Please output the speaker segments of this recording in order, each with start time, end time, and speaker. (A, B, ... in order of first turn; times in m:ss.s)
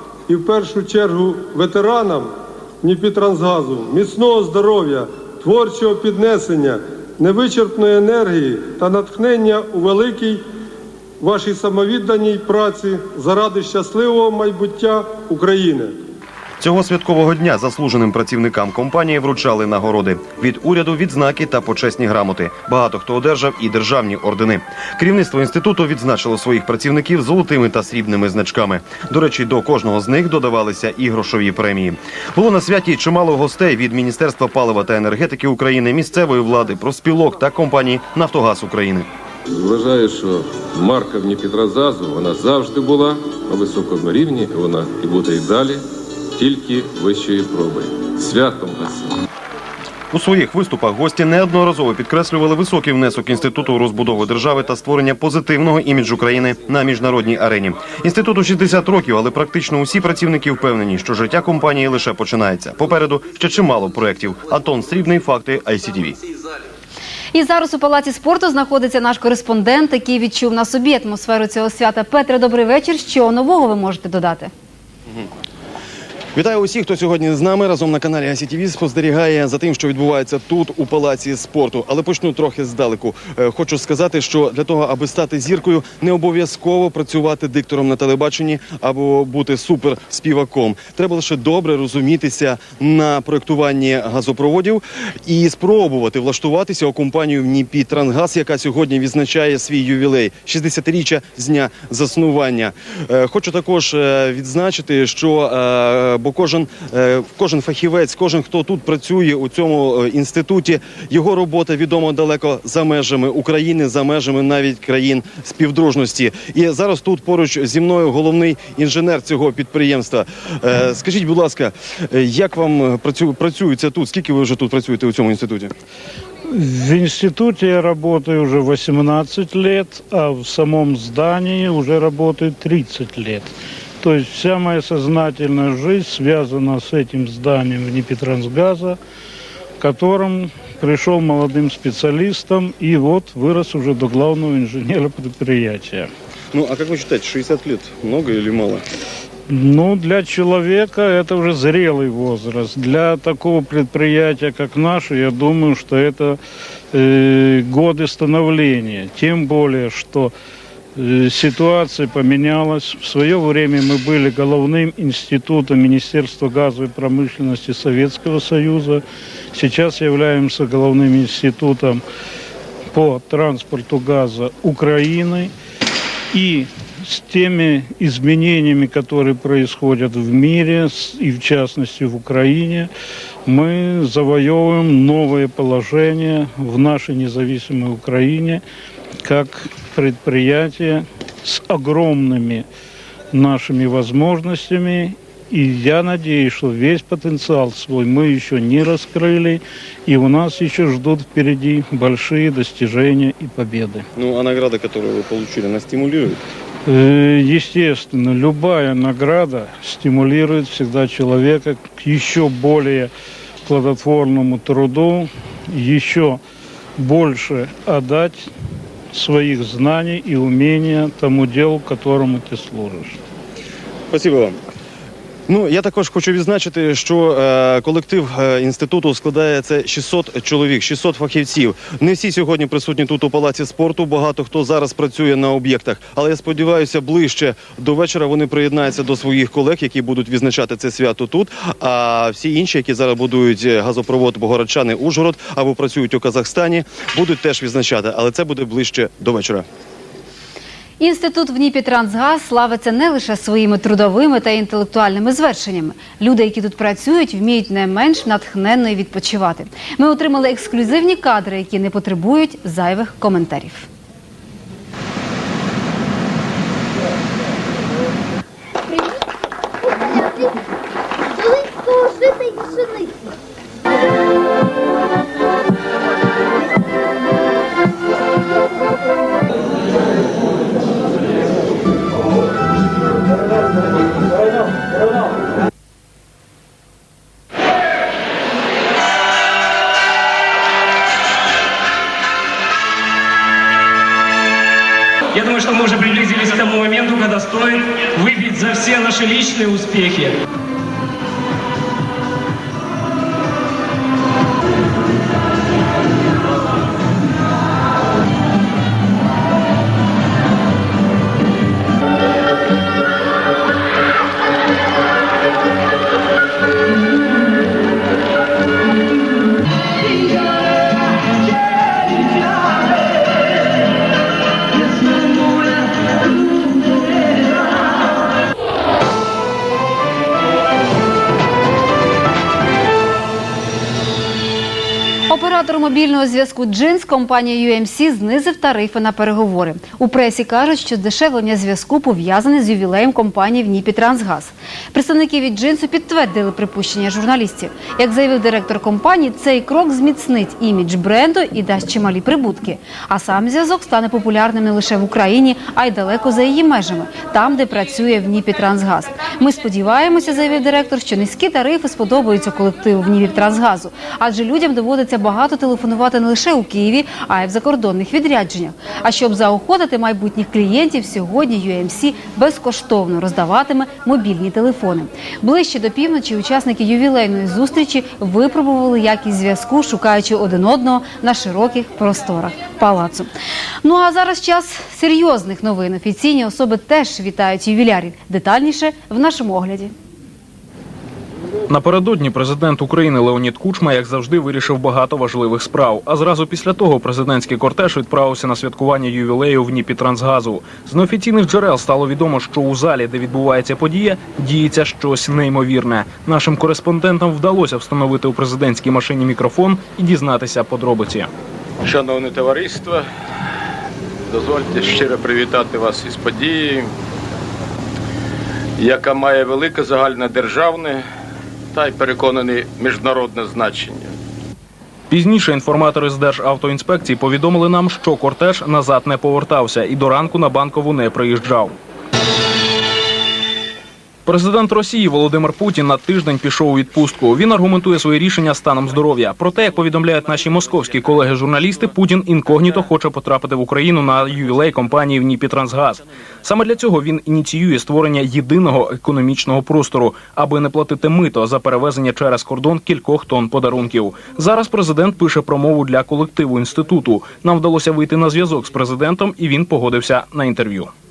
0:00.3-0:02.3 A
0:02.8-0:10.4 A
0:11.2-0:15.9 A
0:16.6-0:39.1 B
0:39.5-0:45.8 C
0:46.4-0:49.2 C
0:50.1-1:06.2 B
1:07.3-1:14.5 D
1:16.3-2:05.7 B
2:06.5-2:13.5 E
2:14.0-2:19.0 E
2:19.8-2:26.1 E
2:26.5-2:28.8 B
2:29.5-2:36.4 E
2:36.9-2:40.3 E
2:41.0-2:49.0 E
2:49.5-2:52.0 E
2:52.9-2:55.5 E
2:56.3-3:02.9 E
3:03.5-3:08.6 E
3:09.2-3:12.6 E
3:13.3-3:24.0 E
3:24.2-3:26.4 B
3:26.9-3:33.1 E
3:33.6-3:36.4 E
3:37.0-3:38.5 E
3:39.1-3:43.2 E
3:44.1-3:44.6 B
3:45.5-4:09.6 B
4:11.0-4:23.9 D
4:55.3-5:00.3 F
5:35.3-6:23.3 D
6:23.8-6:29.9 D
6:31.7-6:51.3 G
6:51.8-6:53.0 H
6:54.3-6:56.9 H
6:58.8-7:01.0 H
7:01.7-7:04.1 H
7:05.1-7:11.7 G
7:14.2-7:40.9 G